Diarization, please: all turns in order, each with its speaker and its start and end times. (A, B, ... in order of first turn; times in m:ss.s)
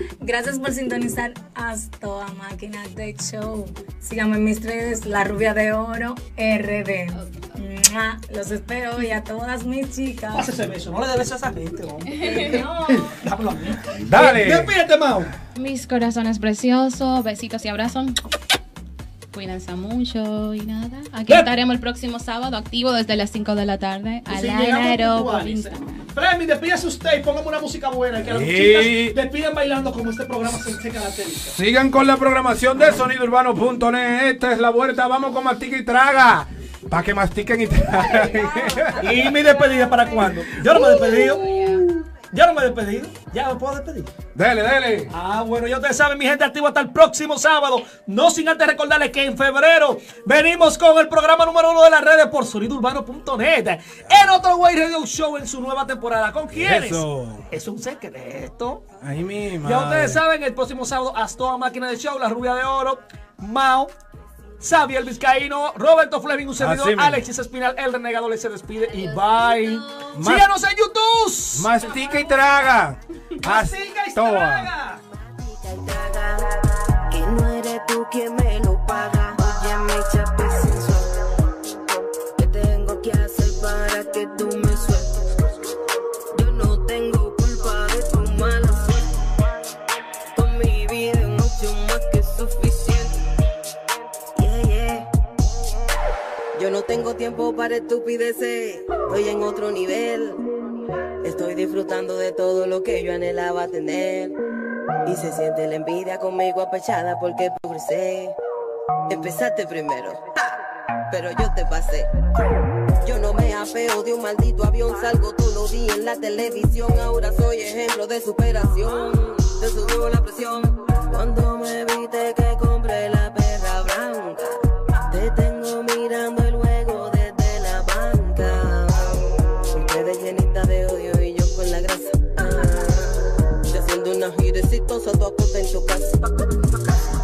0:00.2-0:10.5 A
0:10.3-0:15.3 B
0:12.2-0:13.2 A
0:14.0-0:14.7 C
0:15.6-0:18.2 D
0:19.3-0:26.1 D
0:24.3-0:31.6 B
0:28.2-0:29.2 C
0:31.5-0:39.1 C
0:38.7-0:39.0 D
0:39.0-0:44.1 B
0:39.6-0:40.1 D
0:40.8-0:41.9 D
0:44.3-0:45.1 C
0:45.1-0:58.8 B
0:56.5-0:57.5 C
0:59.0-1:00.2 C
0:59.6-1:03.9 B
1:04.6-1:11.8 B
1:06.6-1:07.2 C
1:10.2-1:10.5 C
1:11.5-1:14.7 C
1:13.4-1:15.0 B
1:15.5-1:21.1 E
1:21.8-1:25.1 E
1:26.3-1:29.2 E
1:30.3-1:33.2 E
1:34.4-1:35.1 E
1:36.6-1:40.4 E
1:41.2-1:44.4 E
1:45.0-1:48.4 E
1:49.1-1:50.6 E
1:51.1-1:52.1 E
1:53.0-2:16.3 E